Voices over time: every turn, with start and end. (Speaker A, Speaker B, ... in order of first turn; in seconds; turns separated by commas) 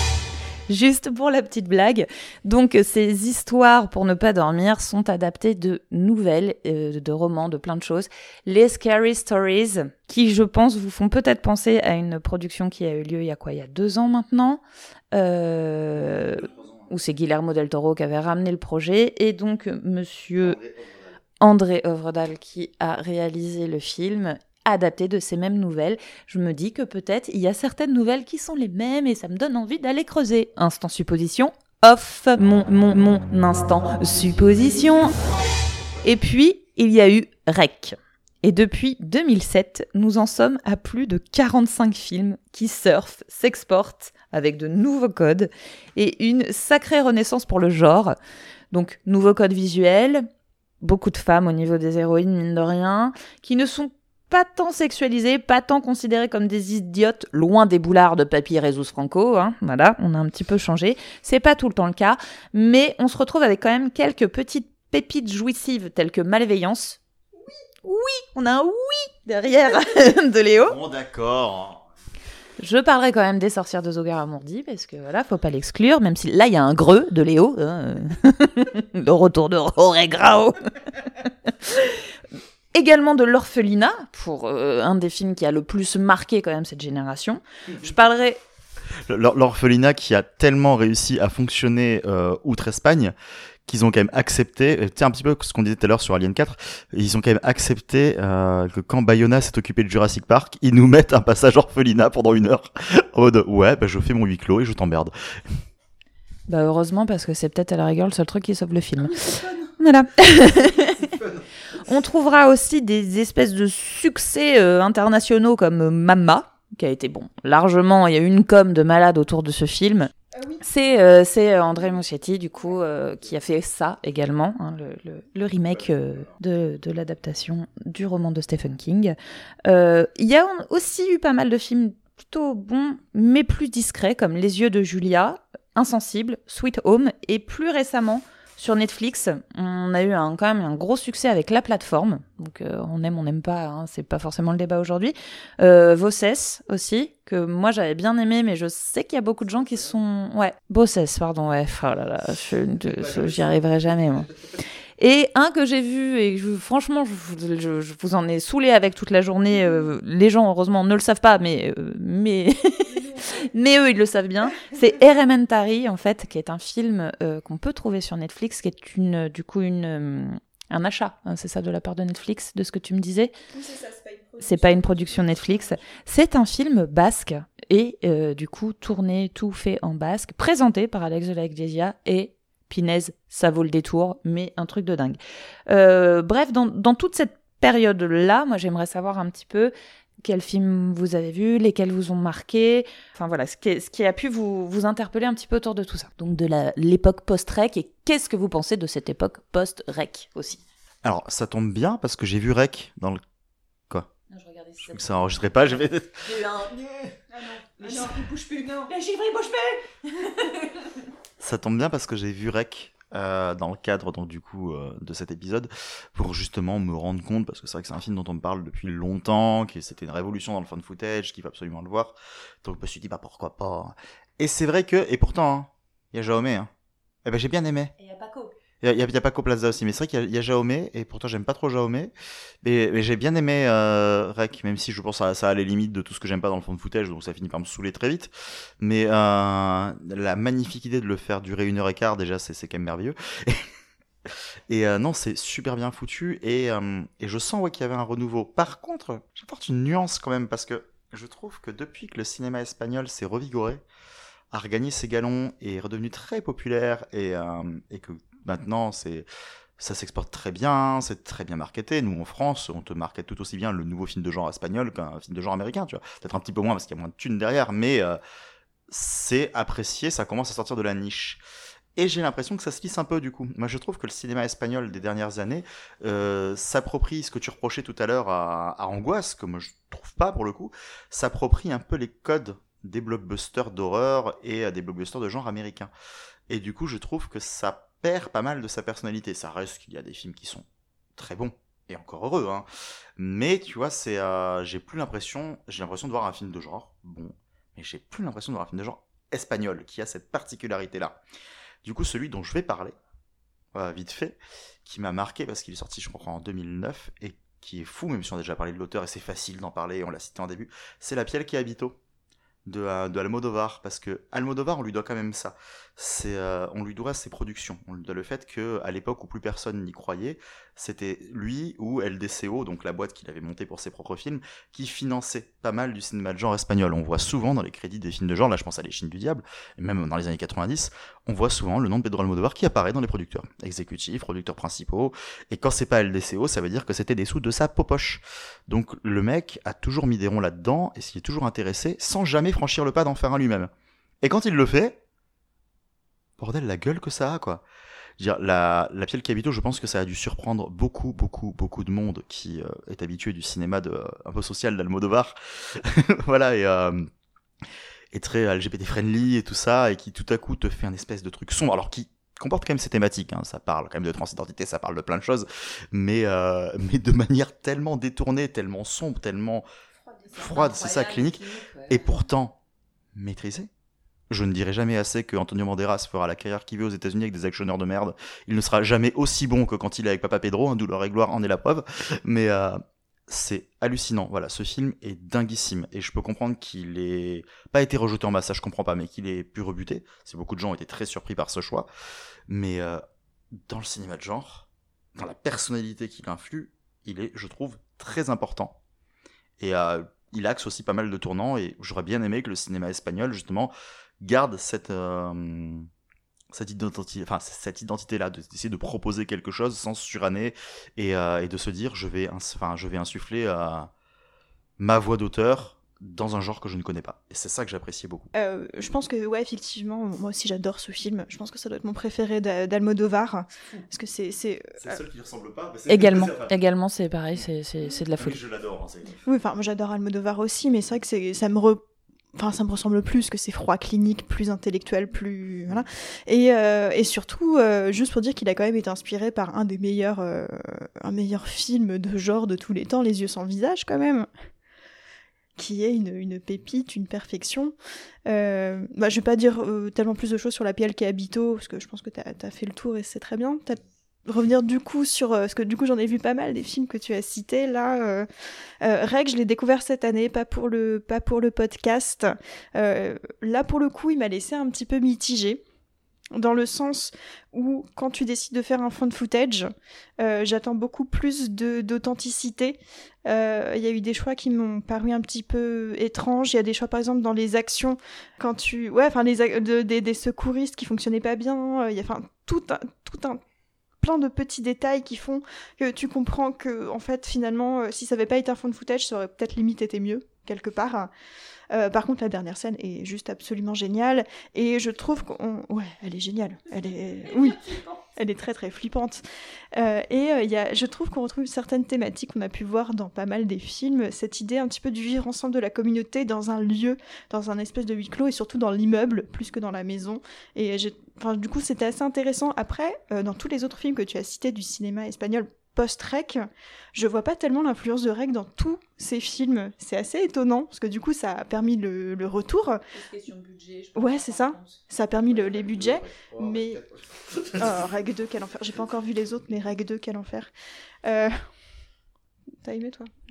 Speaker A: 0.7-14.6, Speaker A: 15.1-20.6, Speaker B: 16.0-16.9, Speaker B: 20.4-21.2, Speaker A: 21.4-35.1, Speaker A: 36.0-48.1, Speaker A: 48.7-50.3, Speaker A: 50.8-67.0, Speaker A: 67.8-70.8, Speaker B: 70.6-71.8, Speaker A: 72.6-80.9, Speaker A: 81.5-82.1, Speaker A: 82.7-88.4, Speaker B: 89.1-93.1, Speaker B: 93.7-105.1, Speaker A: 106.5-111.2, Speaker B: 110.9-111.5, Speaker A: 111.8-120.1, Speaker C: 120.3-120.6, Speaker A: 120.6-154.3, Speaker B: 125.7-126.4, Speaker B: 152.8-153.6, Speaker A: 155.0-173.3, Speaker C: 162.9-163.4, Speaker C: 173.5-175.8, Speaker A: 174.4-189.7, Speaker A: 190.2-200.6, Speaker B: 201.0-203.2, Speaker A: 204.3-206.9, Speaker B: 204.8-206.3, Speaker C: 207.3-208.2, Speaker A: 207.8-210.7, Speaker B: 211.4-226.7, Speaker B: 227.2-227.9, Speaker A: 228.0-228.5, Speaker B: 228.8-232.1, Speaker B: 232.6-243.7, Speaker B: 244.3-253.8, Speaker B: 254.5-259.3, Speaker B: 259.8-268.2, Speaker B: 268.9-271.4, Speaker B: 272.0-285.9, Speaker B: 286.5-290.6, Speaker B: 291.2-292.7, Speaker B: 293.2-301.2, Speaker B: 301.8-302.9, Speaker B: 303.7-312.0, Speaker B: 312.7-343.7, Speaker B: 344.2-345.0, Speaker B: 346.4-347.6, Speaker B: 348.2-357.1, Speaker B: 358.1-369.7, Speaker A: 370.1-372.2, Speaker B: 370.3-372.6, Speaker B: 373.1-373.7, Speaker B: 374.3-391.9, Speaker B: 392.5-393.0, Speaker B: 393.5-398.8, Speaker B: 399.6-405.9, Speaker B: 406.5-413.9, Speaker B: 414.8-418.3, Speaker C: 418.3-425.0, Speaker B: 424.8-426.5, Speaker A: 425.9-428.4, Speaker B: 428.2-429.2, Speaker C: 429.2-431.8, Speaker C: 432.4-444.3, Speaker C: 445.6-447.7, Speaker C: 448.3-458.3, Speaker C: 458.8-465.6, Speaker C: 466.3-483.4, Speaker C: 484.0-491.1, Speaker C: 491.7-522.8, Speaker A: 497.3-498.0, Speaker A: 522.9-524.8, Speaker C: 524.0-526.8, Speaker B: 525.3-527.9, Speaker C: 527.6-530.5, Speaker C: 531.0-531.5, Speaker C: 532.6-533.1